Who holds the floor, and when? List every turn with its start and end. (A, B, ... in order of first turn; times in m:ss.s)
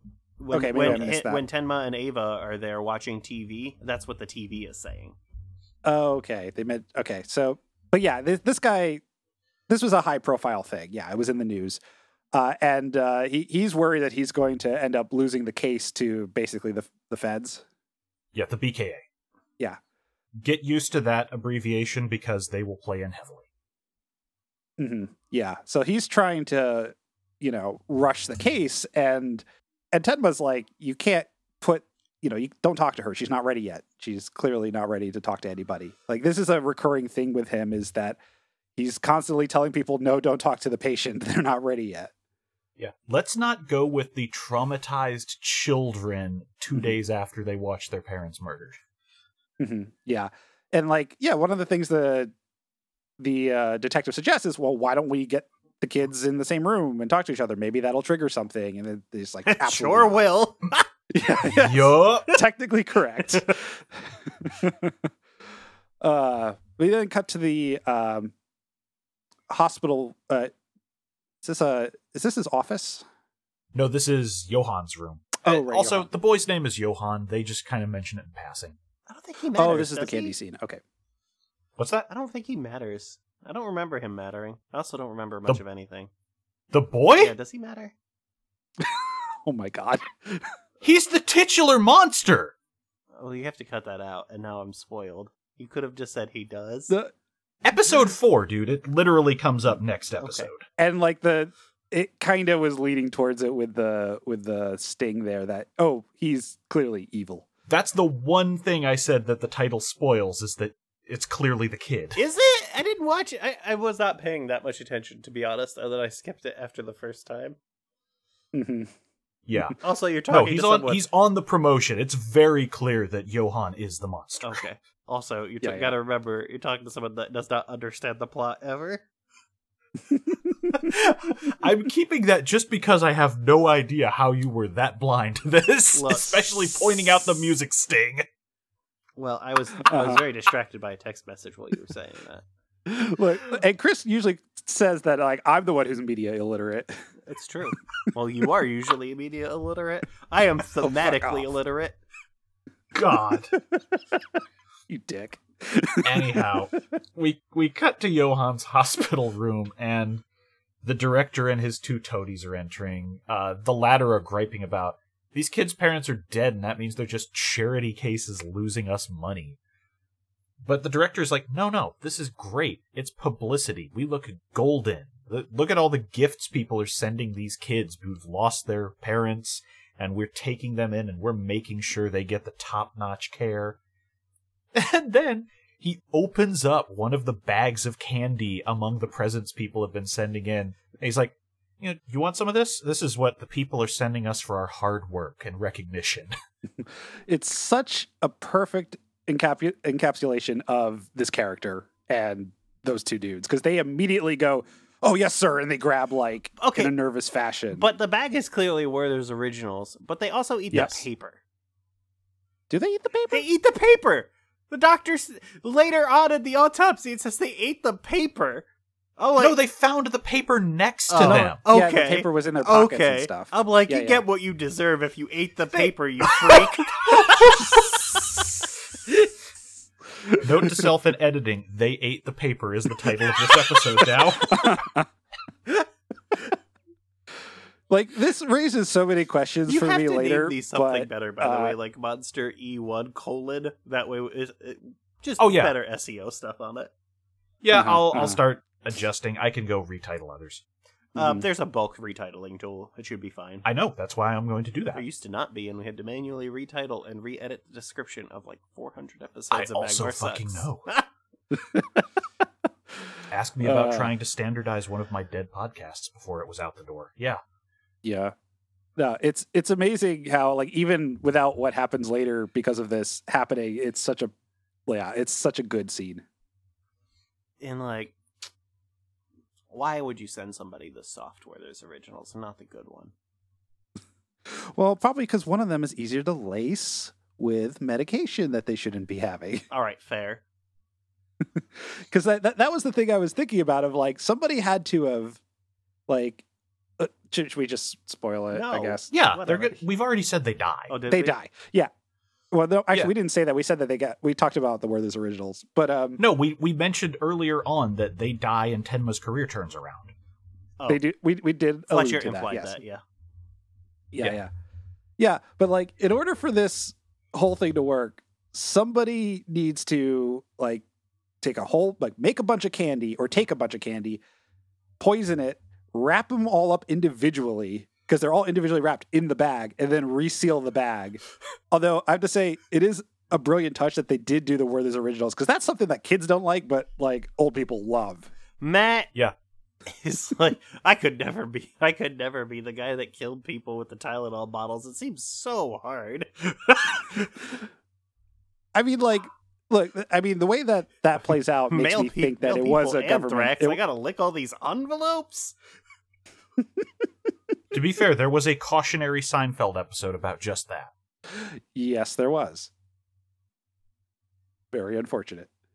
0:00.4-0:05.2 A
0:00.5-0:01.4 B
0:05.8-0:09.0 B
0:09.7-0:11.8 B
0:12.3-0:17.6 B
0:18.3-0:19.0 C
0:20.4-0:23.4 C
0:24.8-0:38.2 B
0:38.8-0:42.1 B
0:42.8-0:48.8 C
0:49.6-0:52.3 B
0:53.2-1:00.1 B
0:59.4-1:00.8 A
1:01.1-1:05.1 B
1:01.5-1:02.3 C
1:06.0-1:08.3 B
1:09.5-1:10.5 B
1:11.4-1:13.0 B
1:13.7-1:18.8 C
1:15.4-1:16.1 B
1:19.1-1:20.3 A
1:19.5-1:20.8 B
1:21.8-1:22.1 C
1:22.1-1:26.1 A
1:26.7-1:27.3 C
1:27.2-1:27.9 A
1:28.8-1:30.5 B
1:30.8-1:32.5 C
1:33.1-1:36.9 A
1:37.6-1:40.7 C
1:40.2-1:40.5 A
1:40.8-1:47.4 B
1:47.7-1:52.2 C
1:52.2-1:57.6 A
1:58.5-1:58.9 B
1:59.5-2:04.6 C
1:59.8-2:01.0 A
2:04.4-2:09.0 A
2:05.6-2:05.9 B
2:10.7-2:18.2 C
2:15.9-2:16.8 A
2:19.2-2:22.4 A
2:19.9-2:20.2 B
2:22.8-2:27.0 B
2:27.3-2:32.0 A
2:30.8-2:31.4 B
2:32.9-2:33.6 C
2:33.5-2:34.4 B
2:34.9-2:36.6 B
2:36.0-2:40.2 C
2:40.8-2:49.6 C
2:50.6-3:03.8 C
3:04.7-3:16.3 C
3:16.8-3:27.9 B
3:26.6-3:26.9 A
3:27.7-3:31.4 A
3:30.7-3:31.0 B
3:32.7-3:33.4 B
3:33.3-3:38.7 A
3:39.2-3:39.6 A
3:39.4-3:41.6 C
3:41.1-3:47.8 A
3:41.2-3:44.2 B
3:47.8-3:48.3 B
3:50.2-3:50.9 B
3:50.4-3:54.9 C
3:54.5-3:55.0 B
3:57.9-4:01.8 B
3:59.7-4:06.9 A
4:05.4-4:05.7 C
4:07.6-4:10.6 C
4:07.7-4:08.4 B
4:11.2-4:11.4 B
4:11.2-4:13.6 A
4:13.6-4:15.0 C
4:14.9-4:21.1 A
4:19.5-4:20.9 C
4:21.5-4:22.0 B
4:23.3-4:27.4 C
4:23.6-4:24.1 B
4:28.0-4:28.3 B
4:29.0-4:34.3 B
4:34.9-4:36.2 B
4:37.6-4:38.2 A
4:39.7-4:43.1 A
4:44.4-4:49.6 B
4:49.7-4:50.4 A
4:51.4-4:55.4 B
4:56.1-4:56.4 B
4:57.0-4:59.1 B
4:58.5-4:59.8 A
4:59.1-5:00.9 C
5:00.9-5:01.3 A
5:01.1-5:01.9 B
5:02.5-5:06.2 B
5:06.2-5:10.1 C
5:10.9-5:12.8 B
5:11.9-5:13.0 A
5:14.1-5:14.5 B
5:15.2-5:20.8 B
5:21.4-5:24.2 B
5:25.0-5:38.3 B
5:38.6-5:39.1 A
5:39.8-5:47.3 A
5:48.7-5:53.8 B
5:51.7-5:55.5 A
5:57.7-6:00.9 C
6:01.3-6:02.7 B
6:04.7-6:05.5 B